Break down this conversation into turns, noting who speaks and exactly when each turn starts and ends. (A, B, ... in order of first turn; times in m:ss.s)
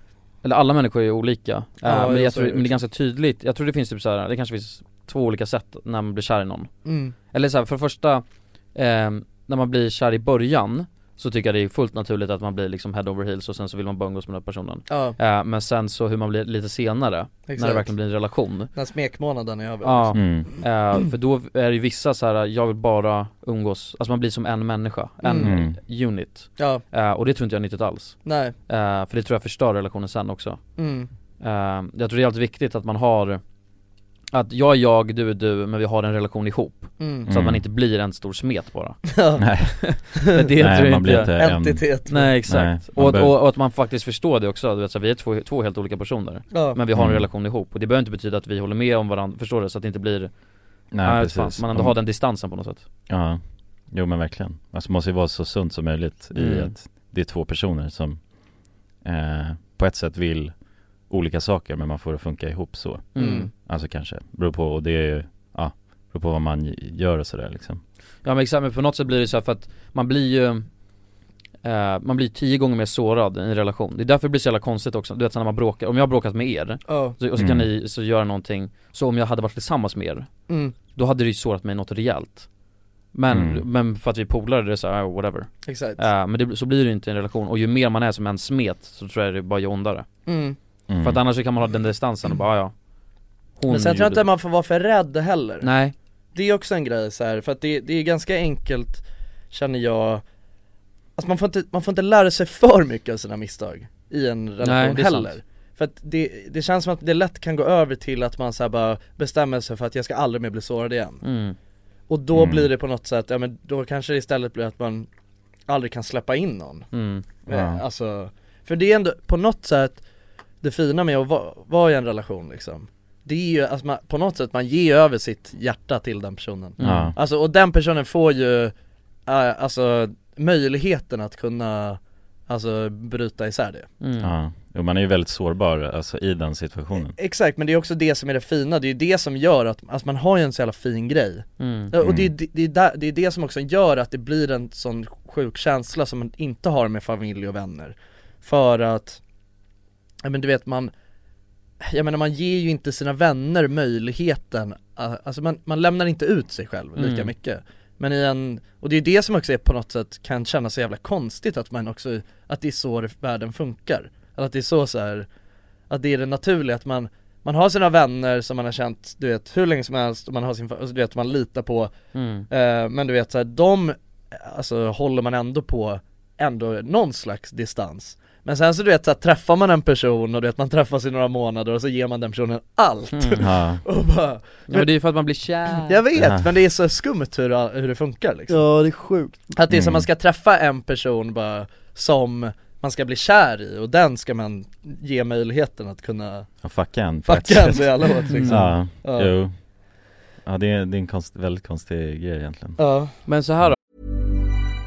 0:00.4-0:06.7 A
0:01.8-0:02.7 B
0:06.8-0:07.1 B
0:07.3-0:18.7 A
0:14.9-0:15.2 B
0:17.5-0:17.9 B
0:18.7-0:20.6 B
0:19.8-0:30.8 A
0:20.1-0:20.5 C
0:25.2-0:25.5 B
0:25.4-0:25.8 C
0:26.6-0:26.8 B
0:28.2-0:28.5 B
0:30.8-0:31.1 B
0:31.4-0:33.4 A
0:34.3-0:39.1 A
0:37.0-0:37.3 B
0:37.3-0:37.6 C
0:39.1-0:39.5 B
0:39.4-0:39.8 C
0:39.8-0:41.4 A
0:40.4-0:41.9 C
0:41.3-0:42.3 B
0:42.1-0:50.3 A
0:42.4-0:43.3 C
0:46.5-0:46.8 B
0:46.9-0:47.3 C
0:50.9-0:52.0 C
0:51.0-0:52.8 A
0:53.1-1:00.5 C
0:56.3-0:56.7 A
1:01.0-1:07.8 C
1:03.1-1:03.5 A
1:03.2-1:03.5 B
1:08.2-1:10.7 A
1:11.6-1:20.3 A
1:16.9-1:17.2 B
1:17.4-1:17.7 C
1:20.5-1:20.7 B
1:20.9-1:22.5 A
1:23.1-1:30.1 A
1:23.3-1:23.6 C
1:25.6-1:26.0 B
1:30.2-1:30.6 B
1:30.9-1:31.2 C
1:31.0-1:32.7 A
1:33.6-1:34.2 A
1:33.7-1:35.7 B
1:35.6-1:35.9 A
1:36.3-1:40.2 B
1:41.2-1:51.2 B
1:44.6-1:45.3 A
1:51.2-1:51.6 A
1:52.1-1:55.1 B
1:52.3-1:52.7 C
1:55.7-1:56.9 B
1:56.9-1:57.2 A
1:57.4-2:00.0 B
1:57.5-1:57.8 C
2:00.6-2:08.7 B
2:06.8-2:07.1 A
2:06.8-2:07.2 C
2:09.3-2:13.9 B
2:14.0-2:14.3 A
2:14.2-2:17.1 C
2:17.0-2:29.2 B
2:21.6-2:21.9 A
2:22.0-2:22.3 C
2:30.2-2:30.9 B
2:31.8-2:45.3 B
2:37.0-2:37.3 A
2:45.9-2:51.9 B
2:52.1-2:52.5 A
2:52.5-3:04.9 B
3:03.1-3:03.4 A
3:03.4-3:03.8 C
3:04.7-3:06.0 A
3:05.8-3:08.6 B
3:06.2-3:06.5 C
3:08.5-3:09.3 A
3:09.5-3:16.5 B
3:09.7-3:10.1 C
3:16.6-3:19.5 C
3:17.2-3:19.3 B
3:18.3-3:18.6 A
3:20.4-3:22.8 C
3:22.8-3:23.1 B
3:23.2-3:23.8 A